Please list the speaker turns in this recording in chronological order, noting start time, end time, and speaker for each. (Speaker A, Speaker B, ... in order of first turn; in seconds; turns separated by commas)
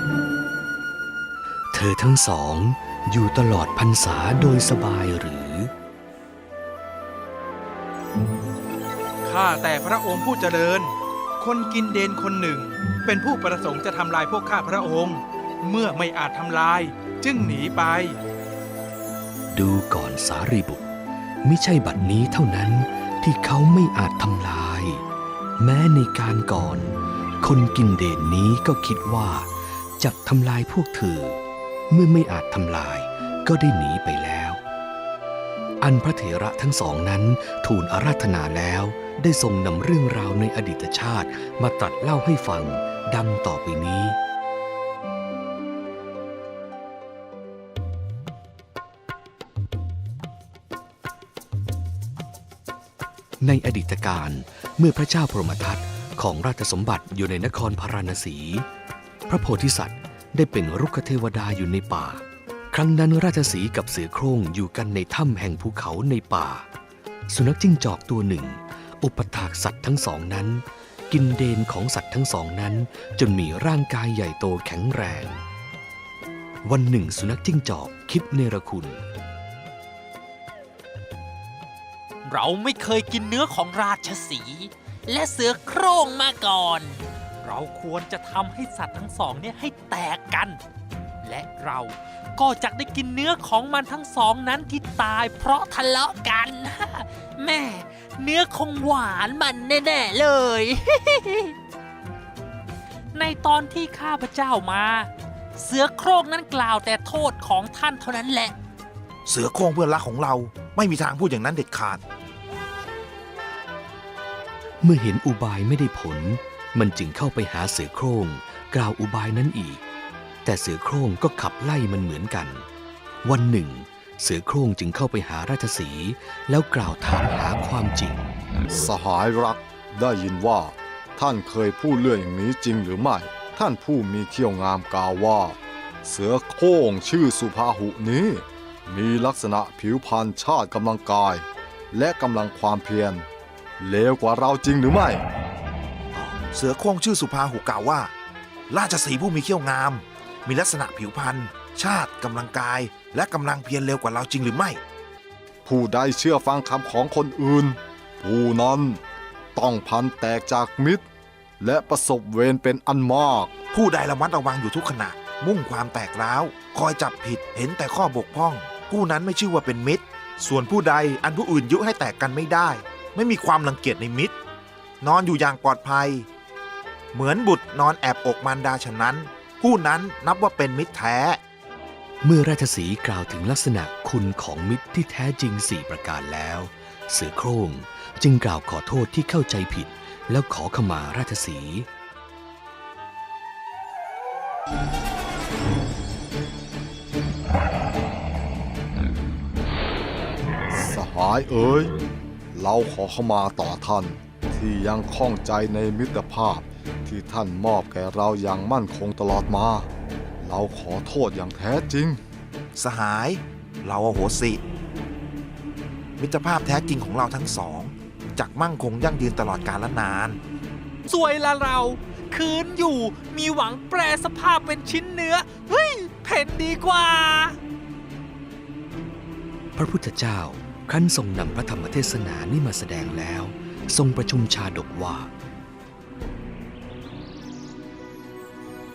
Speaker A: 1.7-5.7, Speaker B: 9.2-18.2, Speaker A: 19.5-20.9, Speaker A: 21.4-25.0, Speaker A: 25.6-34.6, Speaker A: 35.8-44.2, Speaker A: 53.4-58.6, Speaker A: 59.3-66.7, Speaker A: 67.3-75.4, Speaker A: 76.6-79.0, Speaker C: 82.2-90.6, Speaker C: 91.2-101.5, Speaker C: 103.1-108.5, Speaker D: 109.3-112.0, Speaker A: 114.8-119.8, Speaker A: 120.5-122.7, Speaker A: 123.2-128.4, Speaker E: 128.7-143.3, Speaker E: 143.8-145.2, Speaker D: 146.2-148.1, Speaker D: 148.7-154.8, Speaker E: 155.7-159.0, Speaker E: 159.6-161.1, Speaker E: 161.6-163.5, Speaker D: 163.7-174.3, Speaker D: 175.0-176.3, Speaker D: 177.1-181.4, Speaker A: 182.2-191.9, Speaker E: 200.7-201.9, Speaker E: 202.5-209.9, Speaker E: 210.4-212.2, Speaker D: 212.8-214.6, Speaker D: 216.2-220.4, Speaker C: 221.1-227.6, Speaker A: 229.8-235.3